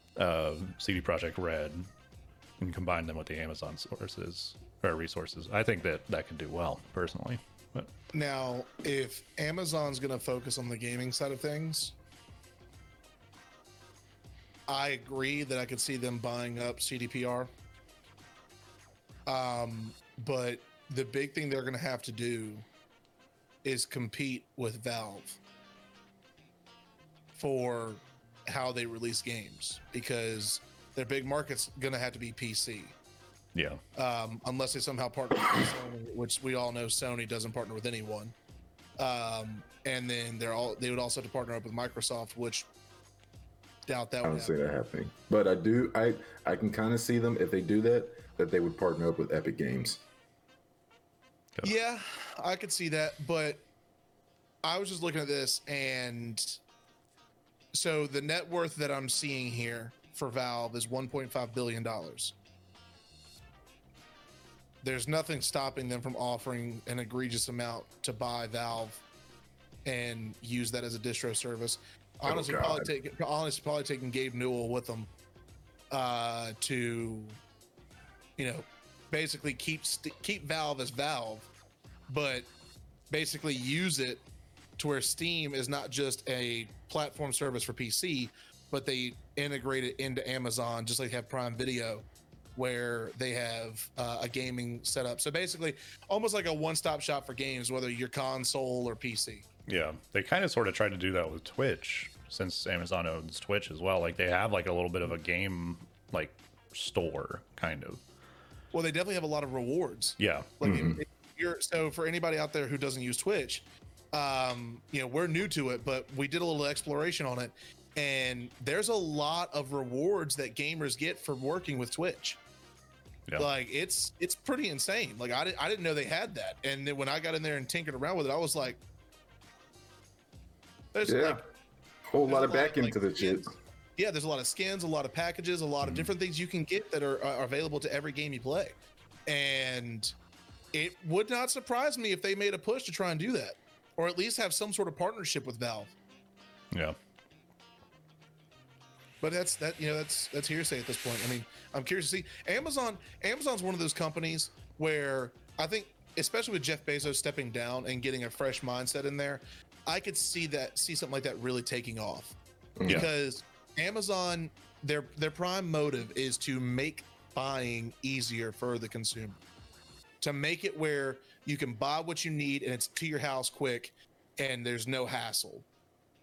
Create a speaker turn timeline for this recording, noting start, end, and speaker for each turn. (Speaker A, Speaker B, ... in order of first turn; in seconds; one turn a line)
Speaker A: 0.2-1.9
Speaker A: 2.6-7.9
Speaker B: 8.1-11.9
Speaker B: 14.7-17.5
Speaker B: 19.3-22.6
Speaker B: 23.6-25.4
Speaker B: 27.3-33.0
Speaker A: 33.5-33.8
Speaker B: 34.0-38.4
Speaker B: 39.0-42.7
Speaker B: 43.9-44.5
Speaker C: 44.2-50.0
Speaker B: 51.6-53.7
Speaker B: 54.6-56.6
Speaker B: 57.7-62.4
Speaker B: 64.8-69.0
Speaker B: 69.8-75.1
Speaker C: 72.2-72.9
Speaker B: 75.9-77.4
Speaker B: 78.4-81.5
Speaker B: 82.1-82.5
Speaker B: 83.1-84.2
Speaker B: 84.8-92.0
Speaker B: 92.6-99.5
Speaker A: 99.7-108.0
Speaker B: 108.7-122.4
Speaker A: 110.2-110.9
Speaker C: 110.7-111.0
Speaker B: 123.4-128.8
Speaker B: 130.9-131.4
Speaker C: 131.1-131.4
Speaker C: 132.1-133.5
Speaker B: 132.3-140.1
Speaker B: 140.7-145.9
Speaker A: 146.7-147.0
Speaker B: 149.2-169.4
Speaker C: 162.8-163.1
Speaker B: 170.2-175.7